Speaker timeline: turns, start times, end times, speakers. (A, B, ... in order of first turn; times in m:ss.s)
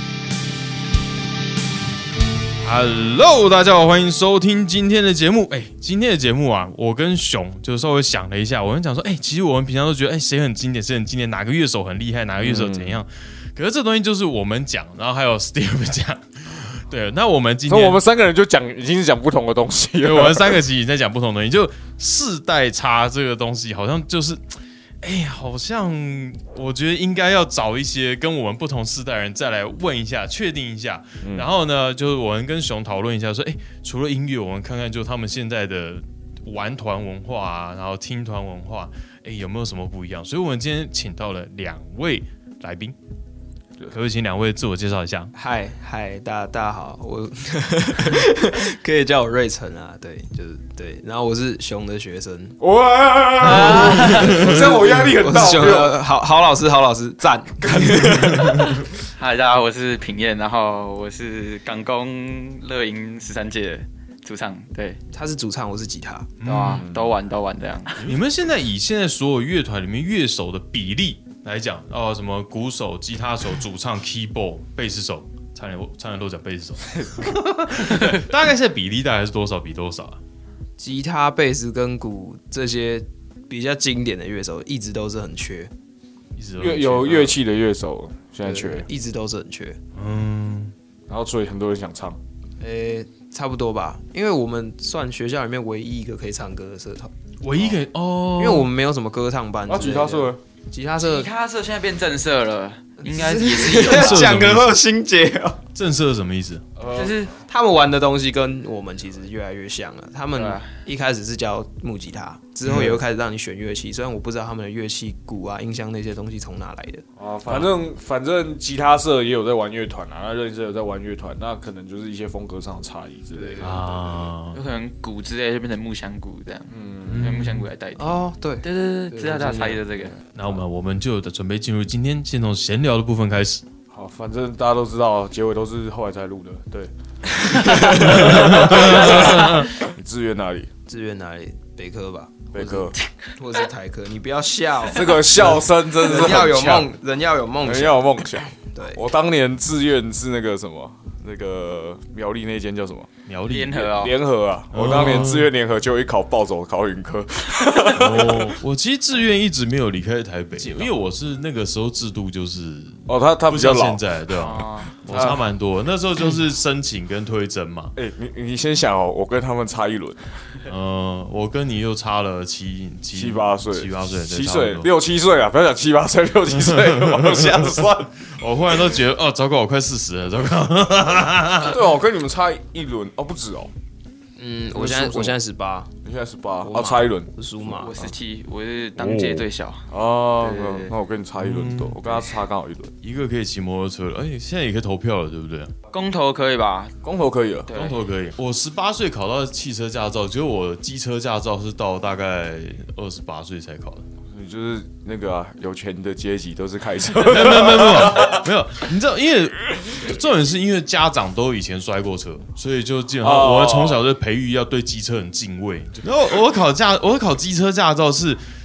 0:02.6-0:18.0 A
0:12.4-0:13.0 B
0:17.7-0:20.6 B
0:20.0-0:24.4 A
0:25.0-0:43.0 A
0:31.2-0:31.5 B
0:43.9-0:45.3 A
0:45.3-0:52.6 C
0:52.6-0:56.0 B
0:53.4-0:54.5 D
0:53.4-0:54.8 A
0:53.5-0:54.3 C
0:54.9-0:58.6 C
0:57.6-0:58.7 B
0:59.0-1:05.0 D
1:05.1-1:06.3 C
1:06.4-1:06.8 A
1:06.4-1:08.1 D
1:06.6-1:07.2 B
1:08.0-1:20.2 A
1:20.8-1:25.7 C
1:26.4-1:27.4 A
1:26.6-1:28.9 B
1:28.4-1:29.8 C
1:30.0-1:30.7 A
1:31.1-1:32.2 B
1:32.6-1:37.1 C
1:37.4-1:38.7 A
1:38.4-1:41.3 C
1:39.7-1:40.4 B
1:41.0-1:44.4 D
1:43.0-1:45.6 C
1:43.7-1:44.8 A
1:45.7-1:46.6 A
1:46.8-1:47.2 B
1:46.9-1:47.3 D
1:47.5-1:57.0 C
1:50.3-1:50.7 D
1:52.6-1:53.0 B
1:57.2-2:04.0 B
2:03.3-2:04.2 C
2:03.6-2:04.6 A
2:04.5-2:10.2 D
2:06.7-2:07.4 B
2:07.1-2:07.7 A
2:08.0-2:09.8 C
2:10.4-2:13.6 A
2:13.9-2:20.7 B
2:17.4-2:18.8 C
2:18.0-2:19.8 A
2:20.9-2:29.0 C
2:22.5-2:22.9 B
2:24.9-2:26.8 B
2:26.1-2:26.9 A
2:27.6-2:33.1 B
2:33.3-2:33.9 A
2:33.5-2:34.2 D
2:33.8-2:38.6 B
2:34.7-2:35.5 A
2:37.8-2:47.9 A
2:43.1-2:44.0 B
2:44.3-2:45.0 D
2:45.1-2:45.4 B
2:48.0-2:50.3 B
2:50.7-2:54.9 A
2:53.1-2:58.1 B
2:56.5-3:01.8 A
3:01.6-3:03.7 B
3:04.4-3:05.9 C
3:04.7-3:05.4 B
3:06.0-3:07.3 B
3:06.6-3:08.0 C
3:07.7-3:10.9 D
3:09.0-3:09.5 A
3:09.9-3:12.9 B
3:11.4-3:12.2 A
3:13.0-3:15.7 A
3:15.9-3:16.9 D
3:17.0-3:17.7 B
3:17.7-3:18.0 D
3:17.7-3:24.1 A
3:24.3-3:28.4 B
3:27.2-3:38.4 A
3:33.2-3:34.0 B